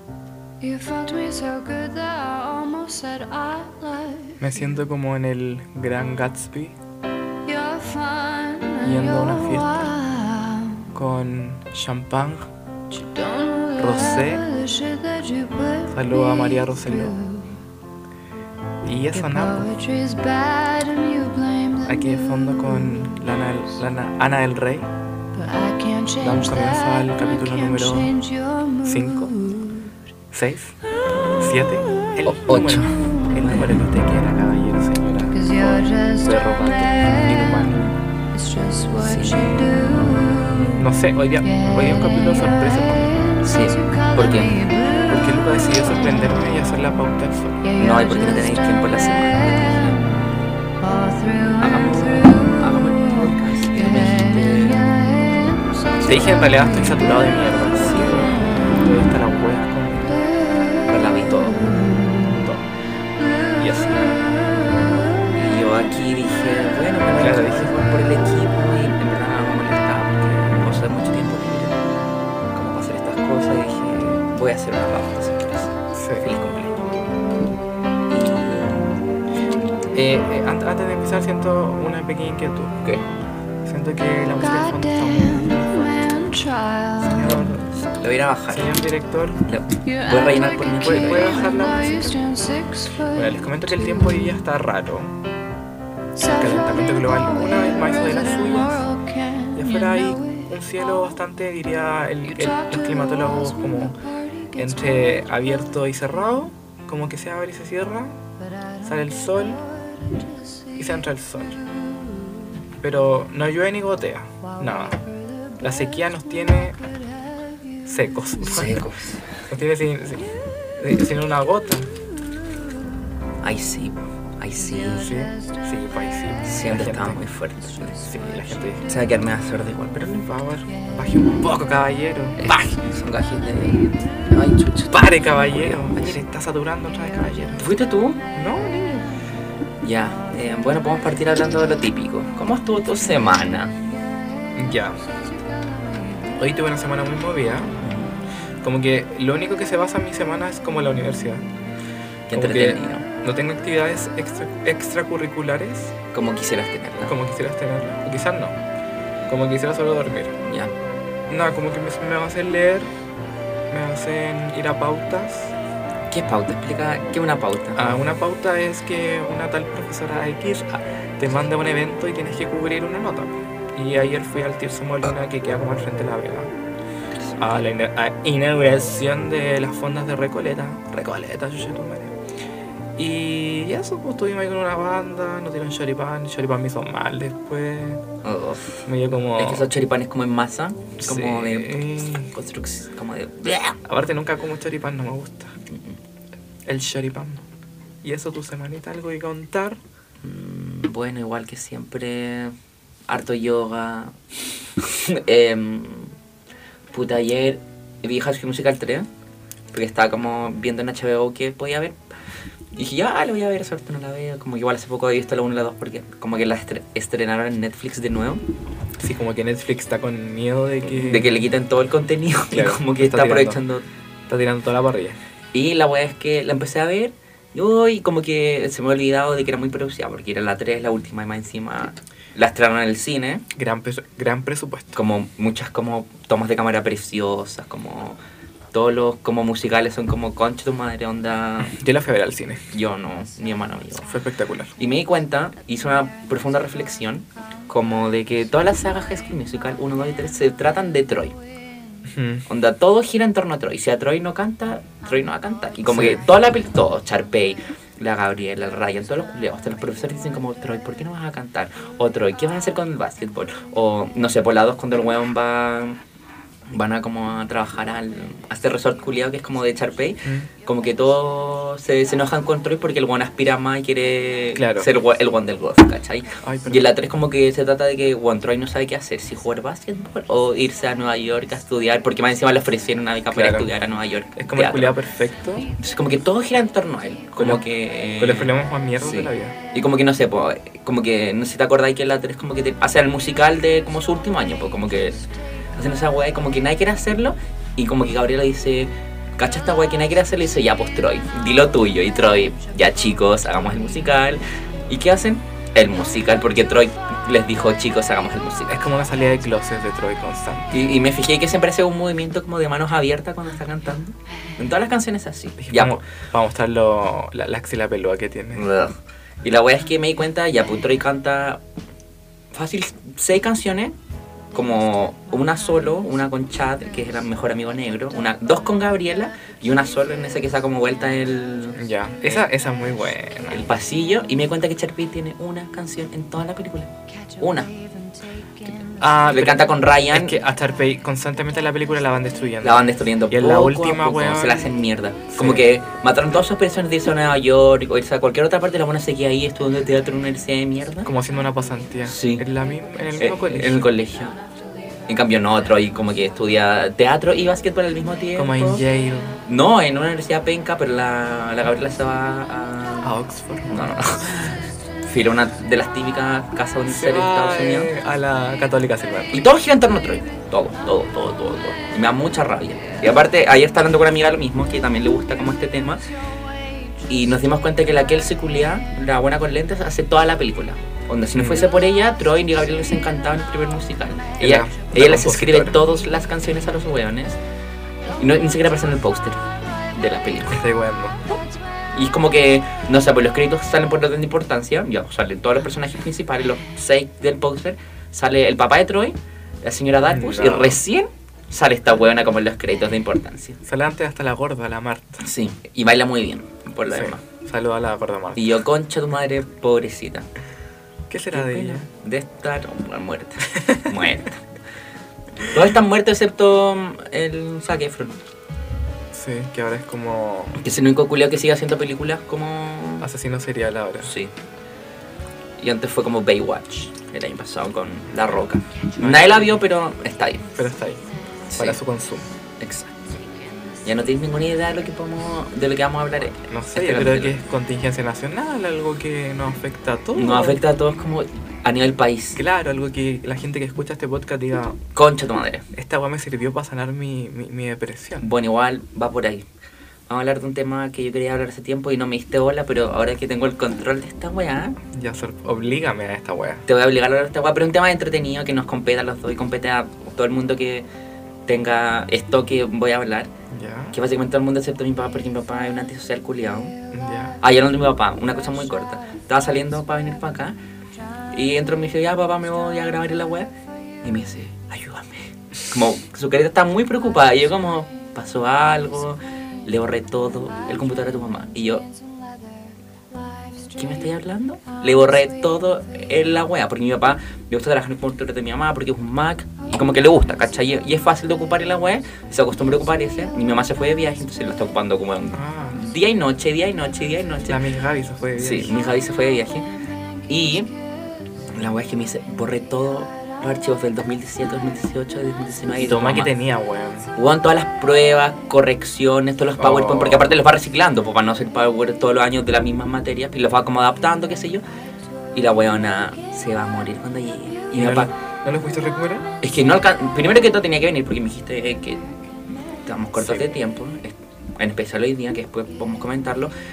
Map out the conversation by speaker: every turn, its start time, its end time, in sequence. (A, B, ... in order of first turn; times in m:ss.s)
0:00.6-0:04.4 A
0:04.4-0:06.8 B
0:07.4-0:10.9 A
0:08.8-0:09.9 B
0:10.9-0:12.5 B
0:12.9-0:17.6 A
0:13.8-0:14.4 B
0:15.9-0:17.2 B
0:18.8-0:19.7 B
0:19.1-0:23.2 A
0:21.8-0:24.9 B
0:25.3-0:29.9 A
0:26.2-0:28.1 B
0:28.8-0:29.3 B
0:30.3-0:30.8 B
0:31.4-0:37.8 B
0:32.2-0:33.8 C
0:35.3-0:40.8 A
0:39.0-0:39.6 C
0:40.8-0:43.2 B
0:41.4-0:46.6 A
0:43.4-0:44.5 C
0:45.1-0:47.6 B
0:47.6-0:50.2 A
0:47.8-0:50.0 C
0:50.8-0:57.4 A
0:51.6-0:55.2 C
0:56.0-1:00.2 B
0:57.7-0:58.1 C
0:58.0-0:58.7 A
1:00.2-1:02.3 A
1:00.9-1:01.8 C
1:02.2-1:02.7 B
1:03.2-1:05.3 A
1:03.6-1:04.1 B
1:05.3-1:11.8 C
1:07.2-1:07.7 B
1:12.5-1:16.8 C
1:15.9-1:16.3 B
1:18.1-1:19.0 C
1:19.9-1:22.8 B
1:23.6-1:26.0 B
1:24.4-1:27.5 A
1:27.0-1:27.7 B
1:27.7-1:28.8 C
1:28.5-1:29.4 B
1:29.4-1:31.4 C
1:29.8-1:34.4 A
1:30.8-1:32.2 B
1:33.1-1:35.2 B
1:36.2-1:40.5 A
1:36.2-1:38.8 B
1:39.5-1:44.0 B
1:42.2-1:45.2 A
1:44.6-1:48.2 B
1:48.8-1:49.6 B
1:49.5-1:50.8 A
1:50.8-1:51.6 B
1:51.9-1:52.2 A
1:52.8-1:55.0 B
1:54.4-1:55.0 A
1:55.6-1:56.8 B
1:57.9-1:58.8 B
1:58.4-1:59.4 C
1:59.5-2:01.9 B
2:03.4-2:05.1 C
2:04.9-2:07.2 B
2:06.4-2:08.0 C
2:08.0-2:08.9 B
2:08.8-2:10.3 C
2:10.1-2:12.5 B
2:12.4-2:16.2 C
2:14.9-2:17.7 B
2:17.6-2:18.2 C
2:18.3-2:19.1 B
2:19.8-2:23.7 C
2:24.6-2:25.0 B
2:26.4-2:27.7 B
2:27.8-2:28.2 C
2:28.6-2:31.5 B
2:32.3-2:33.0 C
2:32.3-2:36.0 B
2:36.1-2:37.2 C
2:37.0-2:38.6 B
2:39.3-2:40.4 B
2:40.4-2:40.7 C
2:41.3-2:42.9 B
2:43.7-2:45.5 B
2:46.1-2:47.8 C
2:47.7-2:56.5 B
2:57.4-3:02.2 B
3:03.0-3:08.0 B
3:08.2-3:08.8 C
3:08.8-3:09.7 B
3:09.4-3:13.8 C
3:11.0-3:12.3 B
3:13.8-3:15.6 B
3:15.7-3:16.0 C
3:16.6-3:17.4 B
3:18.0-3:19.8 B
3:20.2-3:22.6 C
3:23.1-3:24.2 C
3:24.8-3:26.2 C
3:26.9-3:29.1 C
3:29.7-3:32.0 C
3:32.7-3:38.4 C
3:39.0-3:41.3 B
3:40.8-3:43.8 C
3:42.5-3:43.6 B
3:44.3-3:45.2 B
3:45.5-3:53.4 C
3:53.5-3:55.0 B
3:54.9-3:58.2 C
3:58.7-4:01.8 C
4:01.6-4:02.6 B
4:02.7-4:04.1 C
4:04.0-4:04.7 B
4:04.8-4:11.4 C
4:12.0-4:12.4 B
4:12.5-4:26.0 C
4:15.9-4:16.2 B
4:26.7-4:44.9 C
4:30.2-4:30.5 B
4:34.5-4:34.9 B
4:36.4-4:36.9 B
4:43.3-4:43.7 B
4:44.4-4:45.7 B
4:45.8-5:08.8 C
4:47.3-4:47.6 B
4:48.2-4:49.6 B
5:08.7-5:10.7 B
5:10.7-5:16.0 C
5:15.6-5:18.6 B
5:18.5-5:21.6 C
5:22.5-5:23.9 C
5:24.5-5:32.4 C
5:31.7-5:33.7 B
5:33.5-5:37.7 C
5:37.7-5:39.1 A
5:39.0-5:44.8 B
5:39.2-5:40.4 C
5:42.6-5:51.1 C
5:45.3-5:45.7 B
5:51.0-5:53.9 B
5:52.0-5:52.4 C
5:53.2-5:54.4 C
5:55.1-5:58.8 C
5:58.4-5:59.4 B
5:59.4-6:03.1 C
6:03.0-6:04.5 B
6:03.7-6:07.9 C
6:06.9-6:09.4 B
6:09.3-6:16.0 C
6:17.1-6:27.4 C
6:21.3-6:21.7 B
6:24.4-6:25.8 B
6:28.2-6:30.6 C
6:30.5-6:31.2 B
6:31.9-6:43.6 C
6:40.1-6:40.8 B
6:43.6-6:45.2 B
6:45.2-6:47.2 C
6:46.9-6:48.6 B
6:48.4-6:50.3 C
6:51.1-6:51.9 B
6:51.3-6:54.4 C
6:55.4-6:58.2 C
6:59.1-7:00.6 B
7:00.6-7:03.1 C
7:03.0-7:04.1 B
7:04.0-7:04.3 C
7:05.6-7:10.5 C
7:09.0-7:09.6 B
7:10.5-7:12.3 B
7:11.5-7:11.8 C
7:12.6-7:13.0 C
7:13.8-7:17.4 C
7:16.4-7:20.6 B
7:20.2-7:22.4 C
7:22.4-7:24.8 B
7:24.9-7:25.6 C
7:25.7-7:28.3 B
7:28.2-7:29.4 C
7:30.1-7:34.8 C
7:34.9-7:36.6 B
7:36.6-7:40.8 C
7:41.5-7:43.3 C
7:43.5-7:44.0 B
7:43.9-7:46.7 C
7:46.9-7:47.4 B
7:47.4-7:50.5 C
7:51.3-7:53.5 C
7:54.0-8:01.9 C
8:03.4-8:03.7 A
8:03.7-8:17.6 C
8:15.3-8:15.8 B
8:17.5-8:18.8 B
8:18.4-8:19.6 C
8:20.3-8:20.7 C
8:21.5-8:26.3 C
8:25.8-8:27.1 B
8:27.1-8:34.6 C
8:29.6-8:30.4 B
8:35.3-8:38.1 C
8:37.7-8:39.3 B
8:39.4-8:42.1 C
8:42.7-8:46.5 C
8:43.2-8:43.5 B